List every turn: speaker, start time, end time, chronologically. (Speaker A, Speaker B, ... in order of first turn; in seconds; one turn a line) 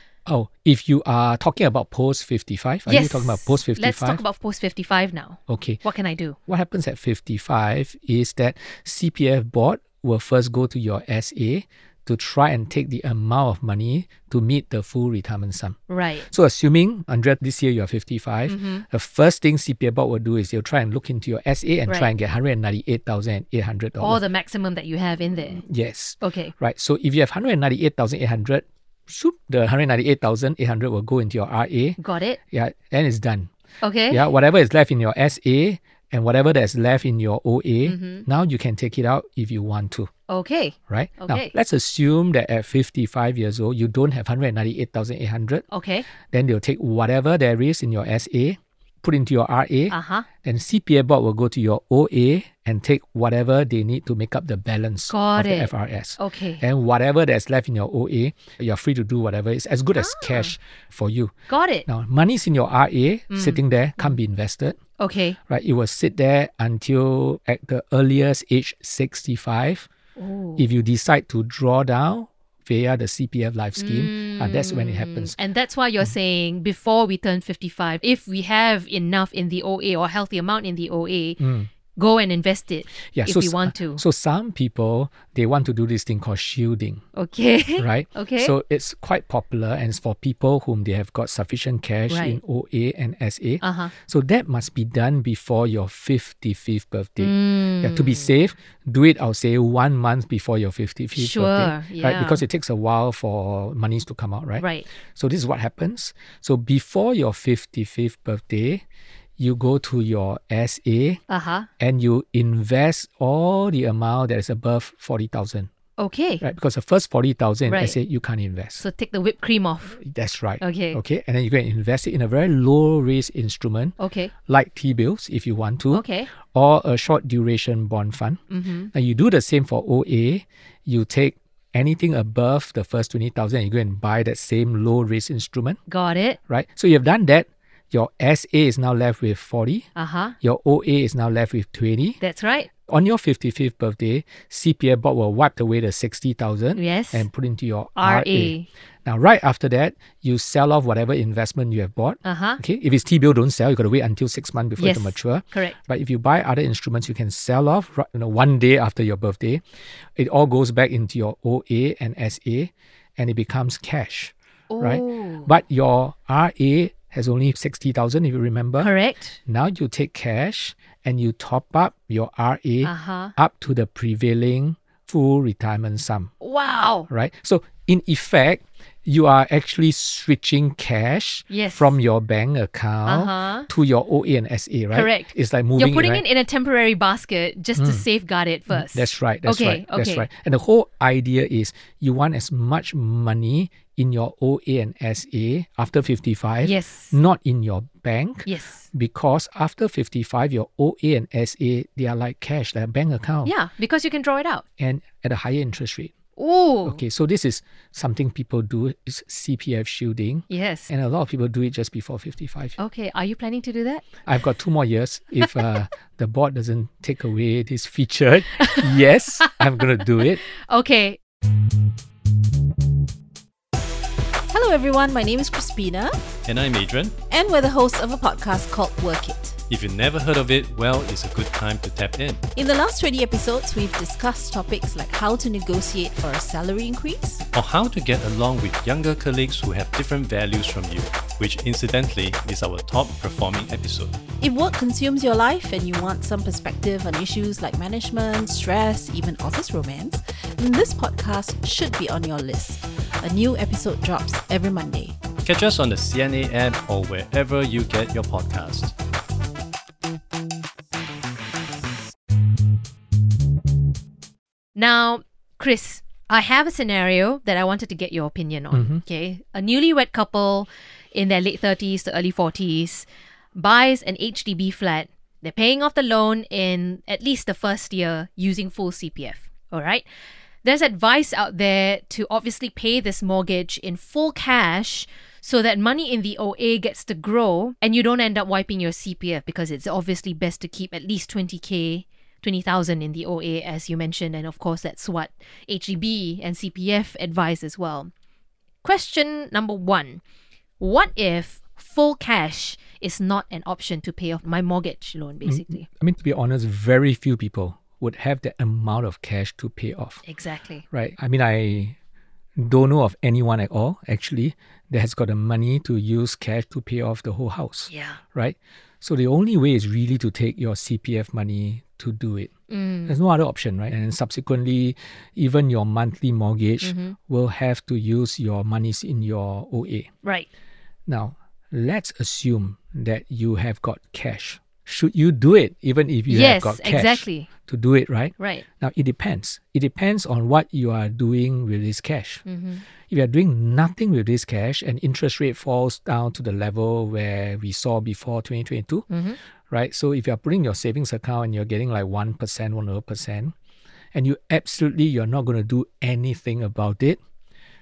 Speaker A: 0.3-4.2
Speaker B: 2.9-6.4
Speaker A: 5.5-5.8
Speaker A: 6.5-24.2
Speaker B: 15.9-16.3
Speaker B: 18.5-18.9
Speaker B: 24.0-25.6
Speaker A: 25.6-32.0
Speaker B: 26.2-26.5
Speaker B: 32.0-32.4
Speaker A: 32.5-33.5
Speaker B: 33.8-34.3
Speaker A: 34.1-40.1
Speaker B: 37.9-38.2
Speaker B: 40.3-41.5
Speaker A: 40.9-45.7
Speaker B: 45.7-46.1
Speaker A: 46.2-61.3
Speaker B: 49.9-50.3
Speaker B: 55.1-56.6
Speaker B: 60.0-60.5
Speaker B: 61.5-61.9
Speaker A: 61.9-64.8
Speaker B: 63.3-64.2
Speaker B: 65.0-65.4
Speaker A: 65.5-69.9
Speaker B: 70.2-70.7
Speaker A: 70.6-75.3
Speaker B: 73.8-81.4
Speaker A: 81.4-81.7
Speaker B: 82.0-84.0
Speaker A: 83.1-87.0
Speaker B: 87.2-88.5
Speaker A: 87.8-108.8
Speaker B: 92.1-92.4
Speaker B: 93.6-93.9
Speaker B: 97.2-98.3
Speaker B: 101.2-102.4
Speaker B: 104.6-104.9
Speaker A: 109.4-111.2
Speaker B: 111.3-111.7
Speaker A: 111.8-115.7
Speaker B: 116.0-116.4
Speaker A: 116.4-118.8
Speaker B: 117.7-118.0
Speaker B: 118.8-120.0
Speaker A: 120.0-128.4
Speaker B: 120.6-121.0
Speaker B: 124.0-124.3
Speaker B: 125.9-126.3
Speaker B: 128.5-128.9
Speaker A: 128.9-135.8
Speaker B: 135.9-136.4
Speaker A: 136.5-139.9
Speaker B: 140.0-140.4
Speaker A: 140.4-142.2
Speaker B: 142.2-142.7
Speaker A: 142.9-159.6
Speaker B: 146.8-147.3
Speaker B: 148.0-148.7
Speaker B: 152.2-152.6
Speaker B: 154.8-155.8
Speaker A: 160.2-168.9
Speaker B: 164.7-165.5
Speaker B: 168.8-169.4
Speaker A: 169.4-176.3
Speaker B: 172.8-173.3
Speaker B: 176.4-177.1
Speaker A: 177.1-186.2
Speaker B: 181.5-181.9
Speaker B: 183.1-183.7
Speaker B: 184.9-190.3
Speaker A: 187.8-188.1
Speaker A: 188.7-203.5
Speaker B: 196.6-197.2
Speaker B: 198.5-198.9
Speaker B: 203.4-204.6
Speaker A: 204.8-206.1
Speaker B: 206.4-207.0
Speaker A: 206.8-212.8
Speaker B: 210.5-210.9
Speaker B: 212.8-214.1
Speaker A: 214.3-220.4
Speaker B: 218.6-221.2
Speaker C: 224.5-226.2
Speaker D: 226.5-227.2
Speaker C: 227.3-229.6
Speaker D: 229.7-232.4
Speaker C: 232.6-237.4
Speaker D: 237.5-244.2
Speaker C: 244.4-255.2
Speaker D: 255.4-258.9
Speaker B: 264.8-280.1
Speaker A: 268.7-269.0
Speaker B: 280.6-298.1
Speaker B: 298.8-300.2
Speaker B: 300.8-305.9
Speaker A: 305.4-310.2
Speaker B: 310.3-310.9
Speaker A: 310.9-312.0
Speaker A: 312.6-322.5
Speaker B: 317.9-318.2
Speaker B: 322.7-323.1
Speaker A: 323.1-330.1
Speaker B: 326.8-327.2
Speaker A: 331.1-342.4
Speaker B: 336.3-337.5
Speaker B: 338.4-338.6
Speaker B: 342.5-342.8
Speaker A: 343.1-349.1
Speaker B: 349.1-349.4
Speaker A: 349.7-353.5
Speaker A: 354.1-357.2